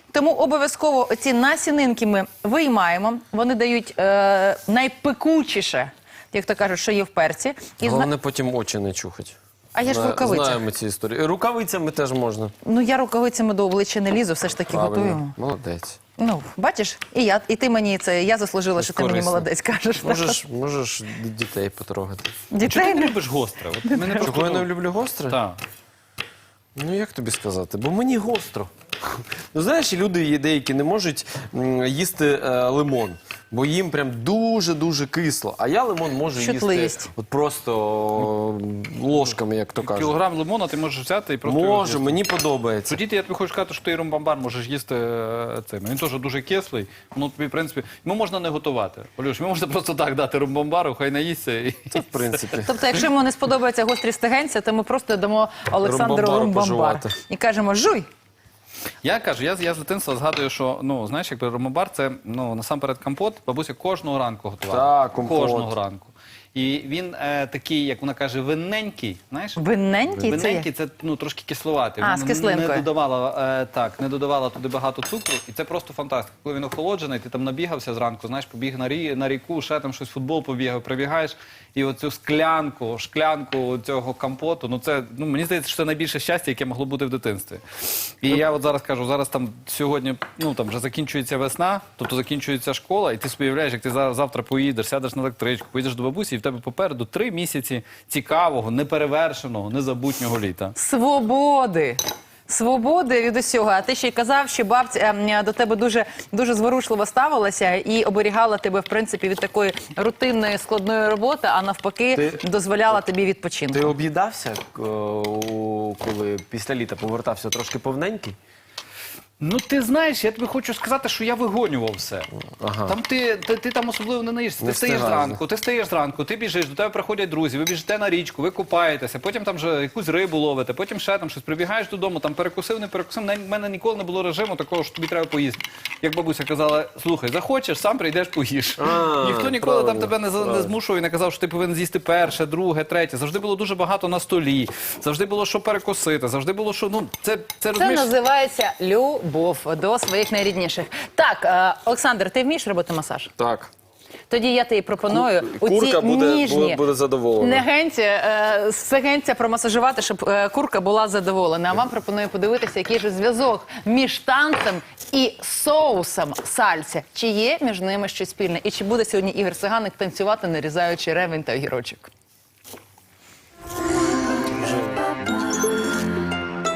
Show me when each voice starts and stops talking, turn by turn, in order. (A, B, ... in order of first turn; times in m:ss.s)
0:00.1-0:08.1 A
0:07.8-0:09.4 B
0:09.8-0:10.6 A
0:09.9-0:12.5 B
0:12.6-0:15.4 A
0:14.7-0:16.0 B
0:16.2-0:20.4 A
0:18.8-0:19.5 B
0:20.0-0:22.3 B
0:22.5-0:23.2 A
0:22.6-0:24.7 C
0:24.2-0:25.4 B
0:25.3-0:25.6 C
0:26.8-0:40.1 B
0:36.4-0:37.1 A
0:39.2-0:42.2 C
0:41.4-0:43.0 B
0:42.9-0:52.4 C
0:51.9-0:52.7 B
0:52.6-0:58.1 A
0:55.8-0:57.1 B
0:59.0-1:09.6 C
1:04.7-1:05.7 B
1:09.6-1:10.7 A
1:10.2-1:27.6 C
1:12.0-1:12.9 A
1:28.2-1:40.7 C
1:40.8-1:53.9 A
1:52.1-1:52.4 B
1:53.7-1:58.4 B
1:59.4-2:02.3 C
2:02.6-2:03.0 B
2:02.9-2:28.1 C
2:04.6-2:05.4 B
2:18.8-2:20.7 B
2:27.7-2:33.3 A
2:33.4-2:33.7 B
2:34.3-2:36.8 A
2:35.1-2:37.6 B
2:37.4-2:52.1 A
2:54.5-2:54.8 B